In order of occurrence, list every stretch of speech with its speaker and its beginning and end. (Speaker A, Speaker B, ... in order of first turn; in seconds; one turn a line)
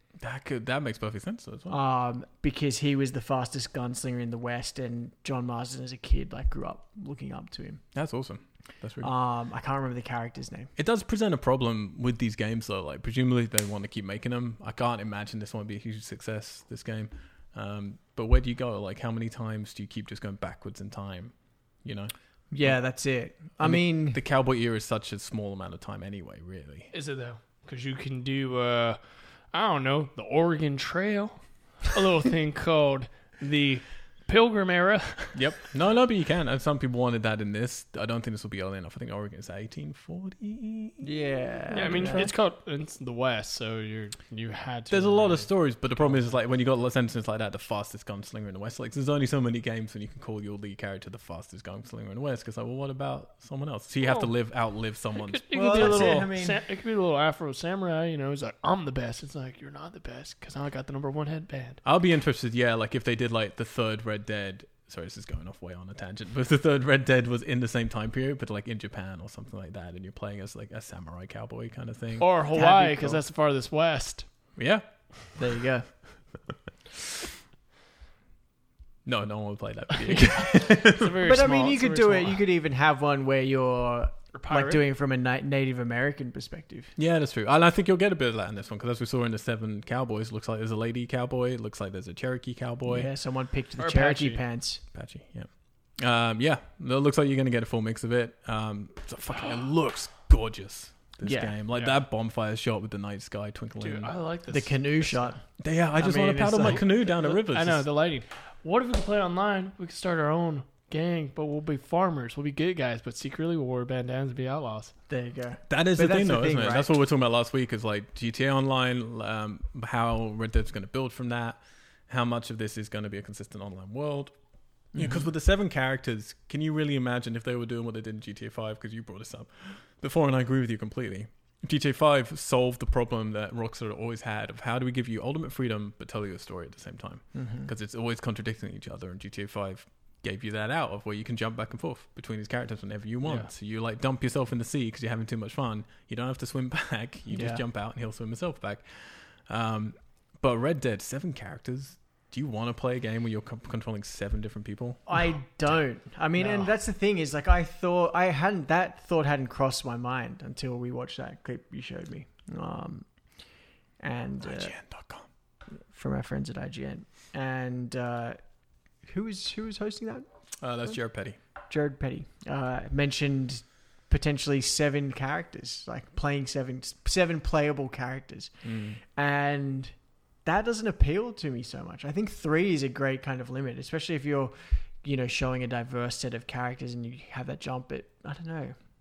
Speaker A: 0.2-1.8
Speaker B: 1.7-7.8
Speaker A: 7.9-9.1
Speaker B: 9.0-10.7
Speaker A: 10.8-22.8
Speaker B: 22.5-24.2
Speaker A: 23.6-26.9
Speaker C: 26.9-29.0
Speaker C: 29.5-35.4
Speaker A: 35.3-41.1
Speaker B: 41.0-42.3
Speaker C: 41.7-45.5
Speaker A: 41.8-42.3
Speaker A: 44.9-56.3
Speaker C: 55.1-61.8
Speaker B: 55.5-56.6
Speaker A: 61.8-72.3
Speaker C: 72.2-74.3
Speaker B: 72.5-73.2
Speaker A: 74.6-74.8
Speaker B: 75.3-75.9
Speaker A: 79.0-81.2
Speaker C: 80.5-82.4
Speaker B: 81.2-86.9
Speaker C: 84.3-84.8
Speaker A: 87.0-93.1
Speaker B: 92.8-94.8
Speaker C: 93.8-94.4
Speaker A: 94.9-104.1
Speaker B: 101.2-101.5
Speaker C: 103.8-105.4
Speaker B: 104.5-105.4
Speaker A: 105.6-107.8
Speaker B: 106.0-106.8
Speaker C: 106.6-114.9
Speaker B: 115.1-116.9
Speaker A: 115.7-124.3
Speaker B: 124.9-125.2
Speaker A: 124.9-155.3
Speaker B: 137.3-137.7
Speaker B: 147.3-147.6
Speaker B: 155.1-163.1
Speaker C: 156.4-156.7
Speaker B: 164.0-164.7
Speaker A: 164.4-165.3
Speaker B: 165.9-168.4
Speaker B: 169.0-170.2
Speaker A: 170.6-171.4
Speaker B: 171.7-178.5
Speaker A: 178.6-179.0
Speaker B: 179.1-179.9
Speaker B: 180.4-188.7